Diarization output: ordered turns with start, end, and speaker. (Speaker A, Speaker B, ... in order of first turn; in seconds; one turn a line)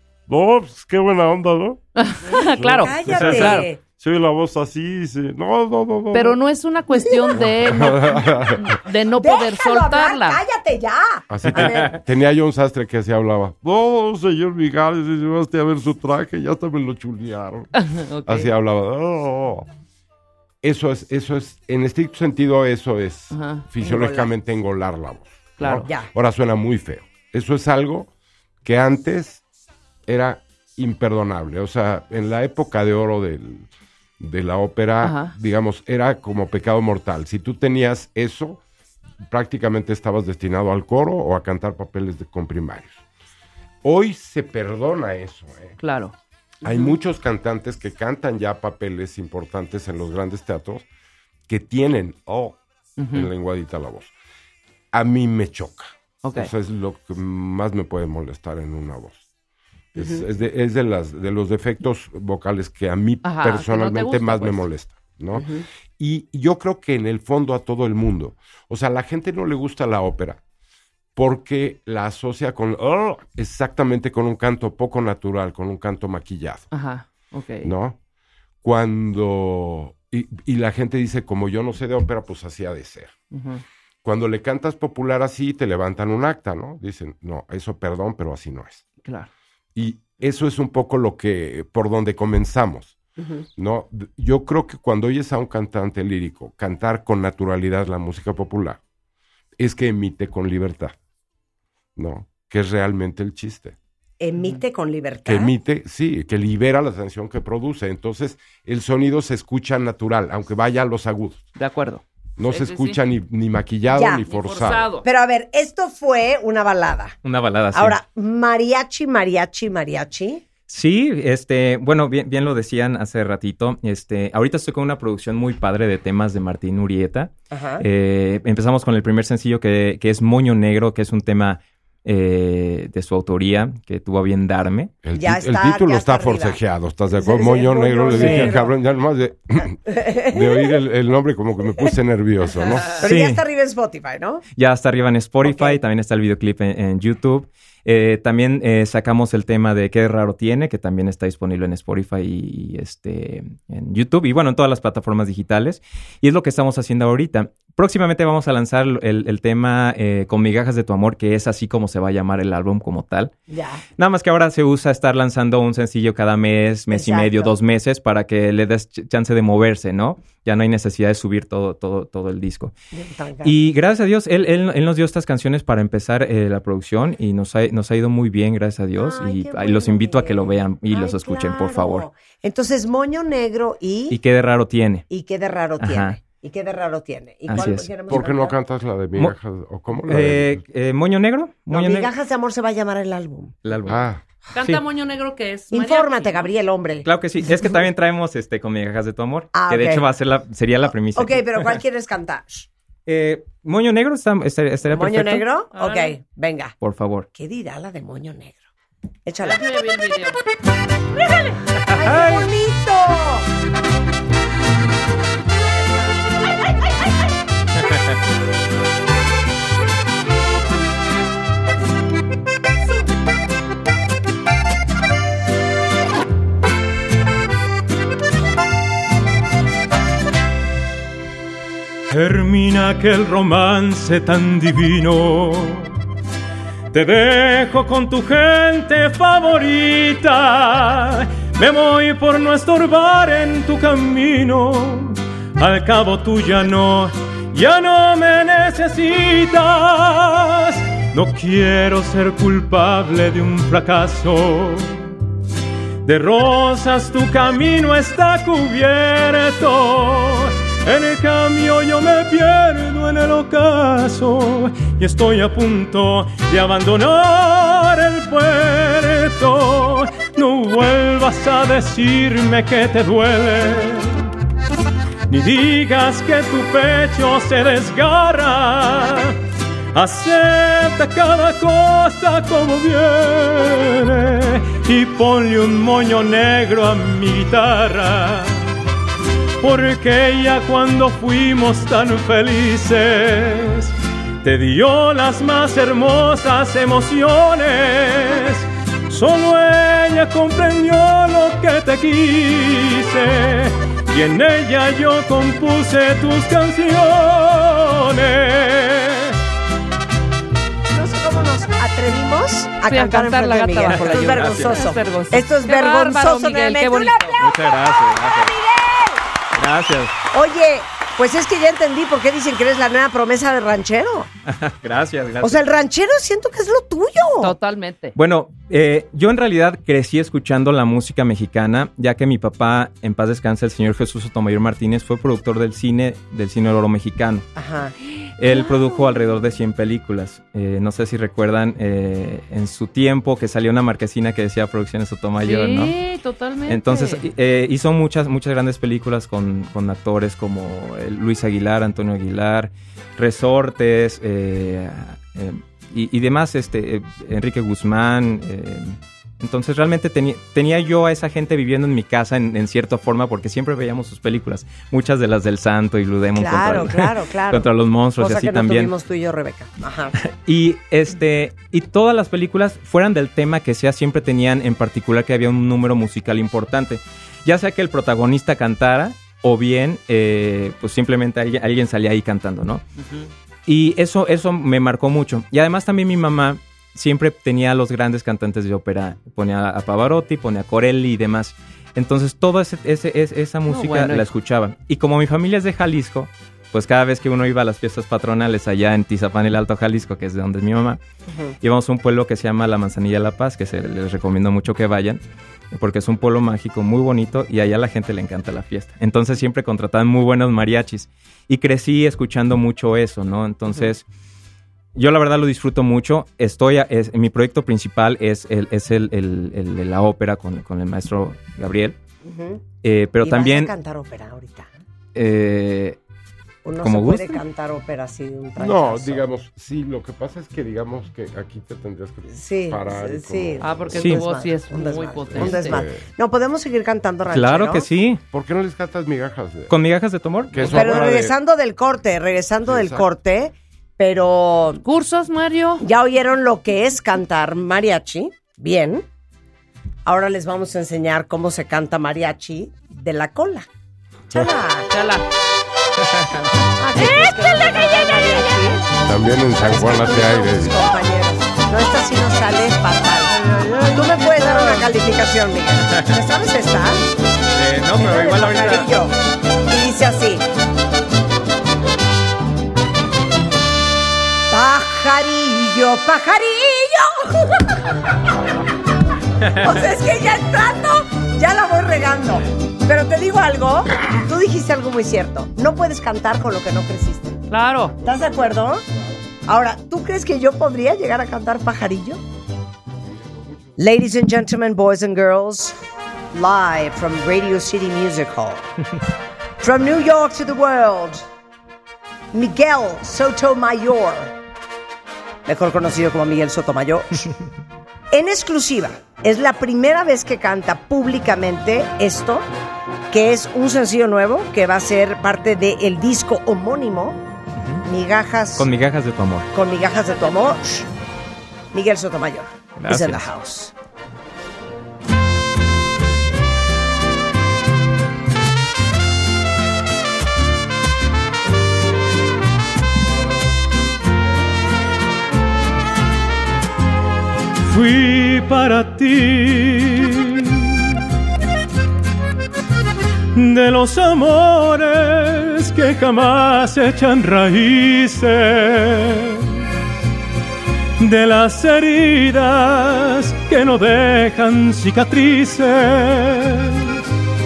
Speaker A: 0.3-1.8
Speaker B: 1.9-3.7
Speaker C: 2.3-3.8
Speaker A: 2.4-6.4
Speaker B: 6.1-10.4
Speaker C: 7.0-7.3
Speaker A: 7.3-8.8
Speaker C: 9.1-12.0
Speaker A: 11.3-17.7
Speaker B: 17.8-18.5
Speaker A: 18.2-19.7
Speaker A: 20.6-28.1
Speaker B: 23.3-23.6
Speaker C: 23.8-24.3
Speaker B: 25.6-25.9
Speaker A: 28.6-29.4
Speaker A: 30.1-33.7
Speaker A: 34.2-38.6
Speaker B: 35.0-35.3
Speaker A: 39.2-43.0
Speaker A: 43.8-45.8
Speaker B: 45.8-46.1
Speaker A: 46.6-50.9
Speaker A: 51.5-52.6
Speaker B: 53.0-53.3
Speaker A: 53.1-54.1
Speaker A: 54.9-59.2
Speaker B: 56.2-56.5
Speaker A: 59.9-70.4
Speaker C: 60.0-60.2
Speaker B: 63.2-64.6
Speaker C: 65.3-65.7
Speaker A: 71.2-76.7
Speaker B: 76.7-77.7
Speaker A: 77.6-78.0
Speaker A: 78.6-83.1
Speaker B: 83.3-83.6
Speaker A: 84.0-88.8
Speaker A: 89.7-93.0
Speaker C: 93.2-93.4
Speaker A: 93.5-98.8
Speaker A: 99.6-100.9
Speaker A: 102.0-103.8
Speaker C: 104.2-105.5
Speaker A: 105.2-111.5
Speaker B: 111.6-113.0
Speaker A: 112.4-114.9
Speaker C: 113.9-114.2
Speaker B: 114.3-115.0
Speaker C: 115.0-117.2
Speaker D: 117.2-118.0
Speaker C: 117.7-120.4
Speaker D: 120.7-134.9
Speaker C: 127.5-127.8
Speaker A: 135.0-143.0
Speaker C: 135.1-136.6
Speaker C: 137.1-138.7
Speaker D: 138.2-138.4
Speaker C: 139.9-140.7
Speaker C: 143.0-144.4
Speaker D: 143.0-143.4
Speaker D: 144.6-163.3
Speaker C: 145.4-145.8
Speaker C: 163.5-163.8
Speaker D: 164.0-172.7
Speaker C: 166.9-167.6
Speaker C: 172.9-173.6
Speaker D: 173.4-182.1
Speaker C: 179.0-184.2
Speaker D: 184.1-185.0
Speaker C: 185.1-188.6
Speaker D: 185.8-186.2
Speaker D: 187.5-188.0
Speaker A: 187.6-190.6
Speaker D: 190.0-192.1
Speaker C: 191.7-193.6
Speaker D: 193.6-194.1
Speaker A: 193.8-194.2
Speaker B: 194.5-196.5
Speaker C: 195.7-197.1
Speaker D: 197.0-201.8
Speaker C: 199.5-200.1
Speaker C: 201.1-202.7
Speaker D: 203.1-205.4
Speaker C: 204.9-206.8
Speaker B: 205.7-206.1
Speaker D: 206.8-207.3
Speaker C: 207.3-208.6
Speaker C: 209.2-209.6
Speaker B: 209.4-210.4
Speaker C: 211.4-213.5
Speaker D: 211.9-212.4
Speaker E: 232.1-236.0
Speaker E: 236.9-255.1
Speaker E: 256.0-274.3
Speaker E: 275.3-279.4
Speaker E: 279.9-288.7
Speaker E: 289.6-309.4
Speaker C: 310.9-319.2
Speaker B: 312.9-317.3
Speaker D: 313.9-314.8
Speaker D: 317.4-318.5
Speaker D: 319.6-320.1
Speaker C: 320.3-324.3
Speaker D: 324.4-325.6
Speaker C: 325.4-327.5
Speaker B: 327.4-328.1
Speaker D: 328.1-337.5
Speaker C: 337.6-337.9
Speaker D: 338.4-345.9
Speaker B: 338.5-338.8
Speaker B: 345.4-347.2
Speaker D: 346.7-368.9
Speaker C: 366.3-370.1
Speaker D: 370.2-382.8
Speaker D: 383.7-401.0
Speaker B: 393.7-394.3
Speaker D: 401.6-414.0
Speaker D: 414.9-422.0
Speaker C: 422.2-422.6
Speaker D: 422.8-423.7
Speaker C: 423.2-424.7
Speaker D: 425.1-426.0
Speaker C: 426.6-429.2
Speaker D: 426.8-427.4
Speaker A: 428.6-433.9
Speaker C: 432.3-437.9
Speaker B: 433.6-435.8
Speaker A: 435.3-436.0
Speaker D: 437.3-438.2
Speaker A: 438.3-439.7
Speaker D: 439.7-441.1
Speaker A: 440.5-441.3
Speaker C: 440.6-444.8
Speaker A: 442.6-443.1
Speaker B: 444.8-445.8
Speaker C: 445.8-449.1
Speaker C: 450.1-453.7
Speaker C: 454.3-454.9
Speaker B: 454.9-455.2
Speaker D: 456.1-456.4
Speaker C: 456.8-458.9
Speaker B: 457.0-458.4
Speaker A: 459.0-460.8
Speaker C: 459.6-463.4
Speaker D: 463.5-463.8
Speaker C: 463.9-467.1
Speaker D: 467.5-468.9
Speaker C: 467.9-469.1
Speaker C: 469.7-470.4
Speaker C: 474.5-477.7
Speaker C: 479.4-487.4
Speaker B: 487.5-487.9
Speaker C: 488.0-488.8
Speaker C: 489.4-492.2
Speaker A: 493.1-493.7
Speaker C: 493.8-495.8
Speaker C: 496.3-498.7
Speaker C: 499.6-501.2
Speaker C: 502.3-504.3
Speaker C: 505.4-507.3
Speaker C: 508.1-512.5
Speaker C: 513.1-517.2
Speaker C: 517.8-518.7
Speaker D: 518.6-519.5
Speaker C: 519.5-520.9
Speaker C: 521.7-523.7
Speaker D: 522.8-523.2
Speaker E: 537.6-541.0
Speaker E: 543.3-549.6
Speaker E: 551.0-557.0